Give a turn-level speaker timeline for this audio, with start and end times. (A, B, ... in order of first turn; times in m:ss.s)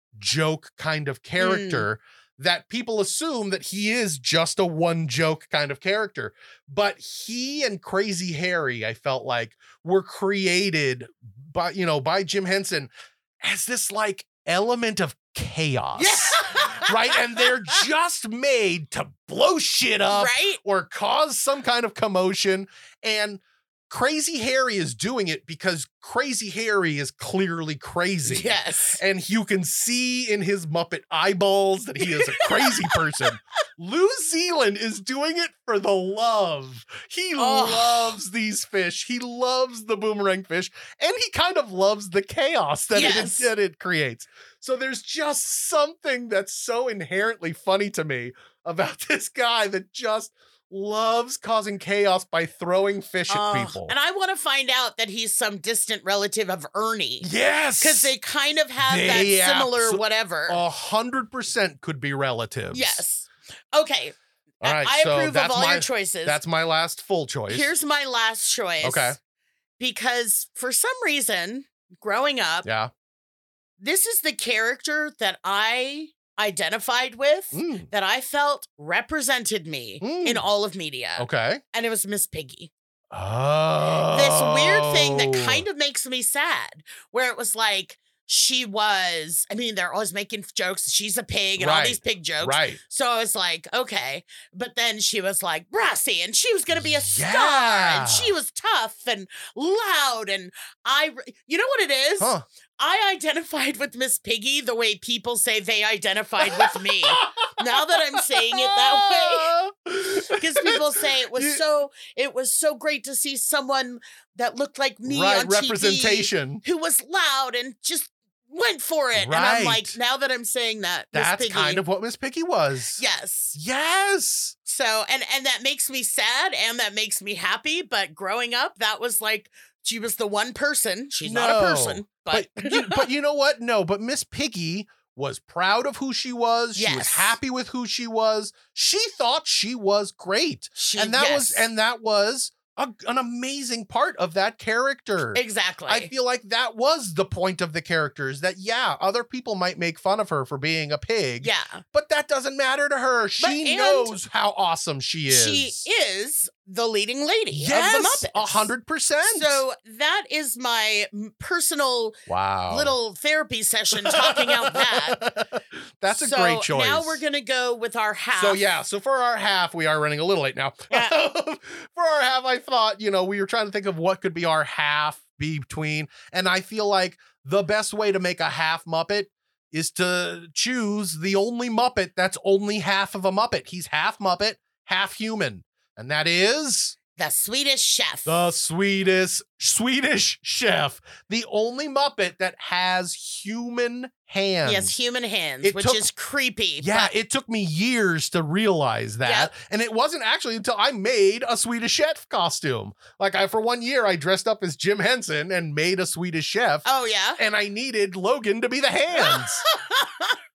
0:00.2-0:53.9 A
0:01.4-0:01.9 B
0:16.0-0:17.8 B
0:20.1-0:20.6 B
0:28.2-0:29.0 B
0:32.0-0:33.0 B
0:37.4-0:38.2 B
0:42.9-0:43.5 B
0:53.3-1:00.6 B
0:57.2-0:58.1 A
0:58.8-1:03.0 A
1:02.7-1:06.4 B
1:04.6-1:07.7 A
1:07.5-1:09.2 B
1:08.8-1:09.2 A
1:09.8-1:12.7 B
1:12.6-1:12.9 A
1:13.8-1:22.7 B
1:17.5-1:17.9 A
1:20.0-1:20.4 A
1:21.2-1:21.6 A
1:23.1-1:25.6 A
1:24.1-1:49.5 B
1:31.6-1:32.8 A
1:36.8-1:38.3 A
1:42.2-1:42.4 A
1:46.4-1:51.6 A
1:50.3-2:01.8 B
1:55.0-1:56.6 A
1:59.2-2:00.0 A
2:01.1-2:03.0 A
2:03.0-2:03.6 B
2:03.5-2:04.5 A
2:04.6-2:13.1 B
2:11.2-2:35.8 A
2:16.8-2:17.4 B
2:20.8-2:21.6 B
2:25.3-2:26.1 B
2:31.4-2:31.8 B
2:33.4-2:34.2 B
2:35.3-2:38.7 B
2:37.5-2:39.6 A
2:39.2-2:45.2 B
2:42.3-2:43.0 A
2:44.0-2:47.2 A
2:46.1-2:48.6 B
2:48.3-3:07.0 A
2:50.9-2:51.1 B
3:07.2-3:08.5 B
3:08.2-3:14.9 A
3:14.6-3:17.1 B
3:15.6-3:16.1 A
3:16.8-3:29.6 A
3:19.2-3:19.5 B
3:26.8-3:27.4 B
3:29.1-3:30.4 B